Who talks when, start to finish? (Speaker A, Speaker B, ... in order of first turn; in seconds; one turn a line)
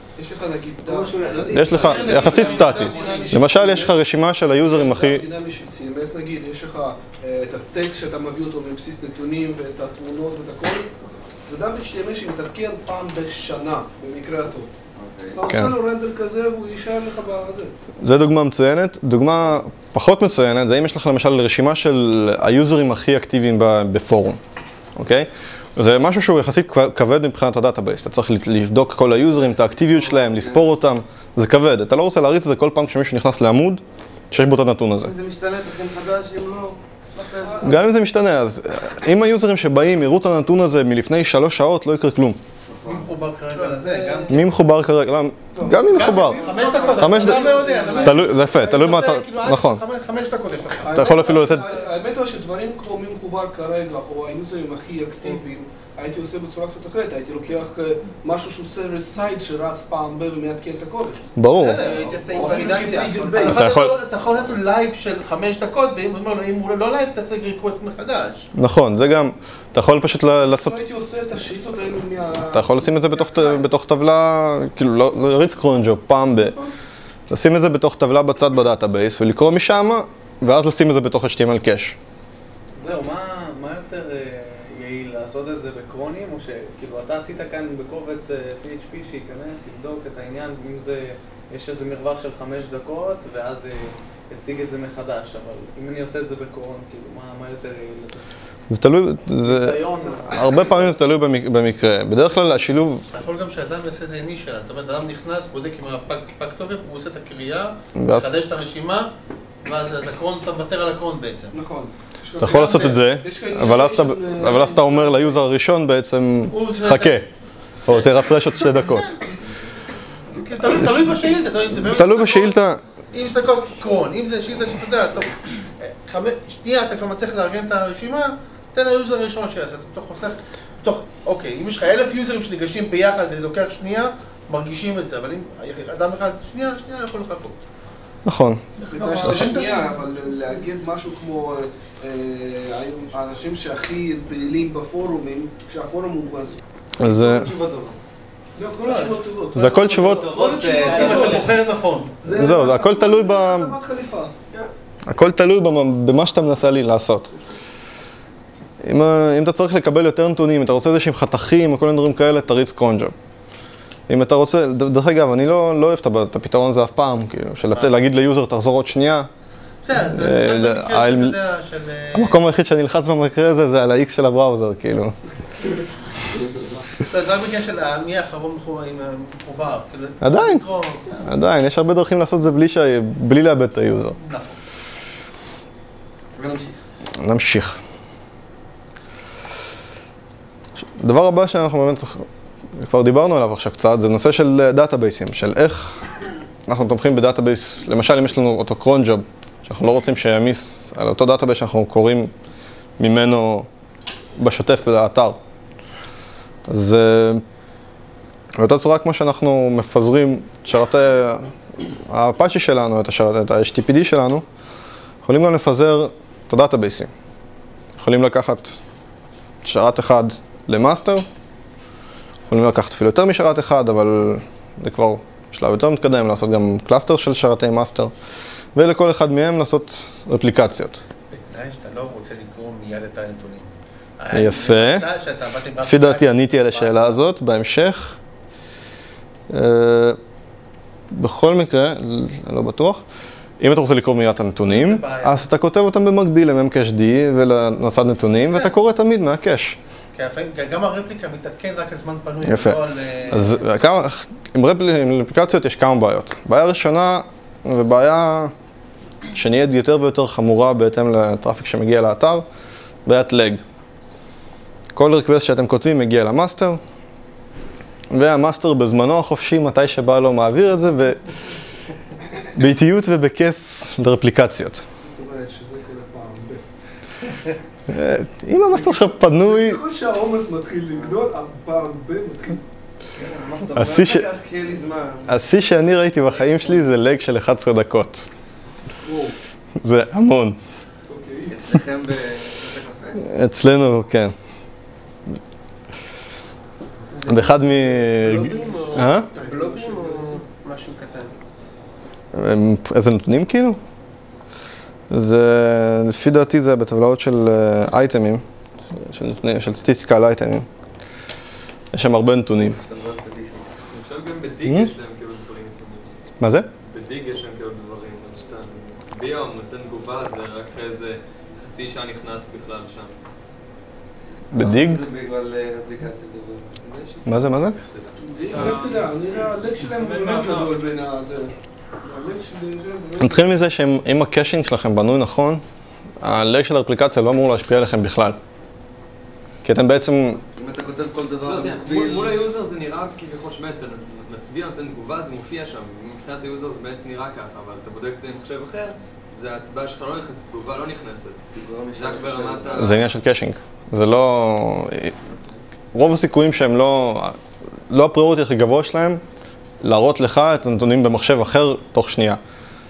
Speaker A: 0.2-10.9
Speaker B: 1.2-3.2
Speaker C: 1.5-5.2
Speaker D: 2.0-3.2
Speaker A: 11.4-14.7
Speaker E: 14.9-15.4
Speaker A: 15.3-17.7
Speaker C: 15.5-15.7
Speaker C: 18.0-24.4
Speaker C: 24.9-35.1
Speaker E: 29.7-30.7
Speaker E: 35.0-37.6
Speaker A: 37.4-37.9
Speaker C: 37.6-42.4
Speaker E: 42.7-43.1
Speaker F: 42.8-44.4
Speaker B: 43.6-44.3
Speaker C: 44.3-46.5
Speaker A: 45.5-48.3
Speaker F: 45.9-51.1
Speaker E: 46.4-47.1
Speaker C: 47.0-49.8
Speaker A: 50.8-61.3
Speaker C: 50.9-51.7
Speaker C: 61.4-61.8
Speaker F: 61.5-68.5
Speaker B: 61.8-63.5
Speaker A: 62.2-63.6
Speaker C: 63.5-63.9
Speaker C: 68.5-70.8
Speaker A: 70.5-73.6
Speaker C: 72.5-76.6
Speaker C: 77.3-82.0
Speaker B: 82.8-98.2
Speaker C: 98.7-103.0
Speaker B: 99.4-100.8
Speaker F: 103.1-109.1
Speaker C: 108.0-108.3
Speaker F: 109.6-111.5
Speaker A: 111.5-115.4
Speaker C: 112.4-117.3
Speaker F: 112.4-113.0
Speaker F: 116.5-117.2
Speaker C: 117.8-119.2
Speaker F: 118.7-119.0
Speaker F: 120.3-137.6
Speaker C: 121.9-122.8
Speaker C: 138.2-138.6
Speaker F: 138.8-139.9
Speaker A: 138.9-146.6
Speaker C: 147.0-147.5
Speaker E: 147.0-147.9
Speaker A: 148.6-151.4
Speaker F: 148.8-149.1
Speaker C: 149.6-150.3
Speaker D: 150.0-151.0
Speaker B: 150.3-151.6
Speaker F: 150.9-152.1
Speaker A: 152.2-154.3
Speaker C: 152.3-153.8
Speaker C: 155.1-157.3
Speaker C: 158.8-163.1
Speaker C: 164.1-169.3
Speaker F: 169.8-172.4
Speaker C: 169.9-171.3
Speaker C: 172.1-175.2
Speaker F: 177.0-181.2
Speaker C: 180.2-180.6
Speaker C: 181.2-184.2
Speaker F: 184.1-184.6
Speaker E: 186.3-186.7
Speaker C: 187.2-187.8
Speaker C: 190.8-196.1
Speaker C: 196.7-202.3
Speaker C: 203.0-203.7
Speaker C: 204.4-205.4
Speaker C: 206.7-207.4
Speaker C: 208.6-214.4
Speaker C: 215.2-217.1
Speaker C: 218.0-218.8
Speaker C: 219.6-221.2
Speaker C: 222.5-228.1
Speaker C: 228.7-231.0
Speaker F: 231.3-237.2
Speaker C: 234.3-235.1
Speaker C: 235.8-238.2
Speaker C: 239.5-240.2
Speaker C: 241.1-243.0
Speaker C: 243.6-249.8
Speaker F: 244.6-245.4
Speaker F: 250.1-253.6
Speaker C: 252.4-252.8
Speaker C: 253.3-258.5
Speaker C: 259.3-262.4
Speaker C: 263.0-263.6
Speaker C: 264.9-266.8
Speaker C: 268.1-271.3
Speaker C: 272.5-274.8
Speaker A: 275.0-276.6
Speaker C: 277.9-279.8
Speaker A: 278.7-282.6
Speaker E: 280.9-281.2
Speaker E: 283.1-285.4
Speaker C: 283.7-284.3
Speaker C: 285.3-288.3
Speaker A: 289.0-289.4
Speaker C: 289.8-290.6
Speaker A: 291.1-291.6
Speaker E: 291.5-293.2
Speaker C: 293.2-294.3
Speaker C: 297.2-299.3
Speaker B: 297.6-301.3
Speaker A: 299.1-300.4
Speaker C: 302.3-303.8
Speaker C: 305.1-308.4
Speaker C: 308.9-310.7
Speaker C: 311.9-312.8
Speaker E: 312.6-313.7
Speaker D: 313.9-316.1
Speaker C: 314.6-314.9
Speaker C: 316.4-316.7
Speaker D: 316.8-323.1
Speaker C: 324.5-325.0
Speaker E: 324.5-327.2
Speaker C: 327.2-327.8
Speaker D: 327.8-329.1
Speaker A: 328.2-333.5
Speaker D: 329.8-330.7
Speaker C: 333.2-335.6
Speaker C: 336.2-338.4
Speaker C: 339.6-340.4
Speaker E: 340.5-342.4
Speaker D: 341.4-351.4
Speaker E: 351.5-352.9
Speaker D: 351.9-353.1
Speaker C: 352.7-355.2
Speaker C: 355.9-357.4
Speaker C: 357.9-359.2
Speaker C: 359.8-362.4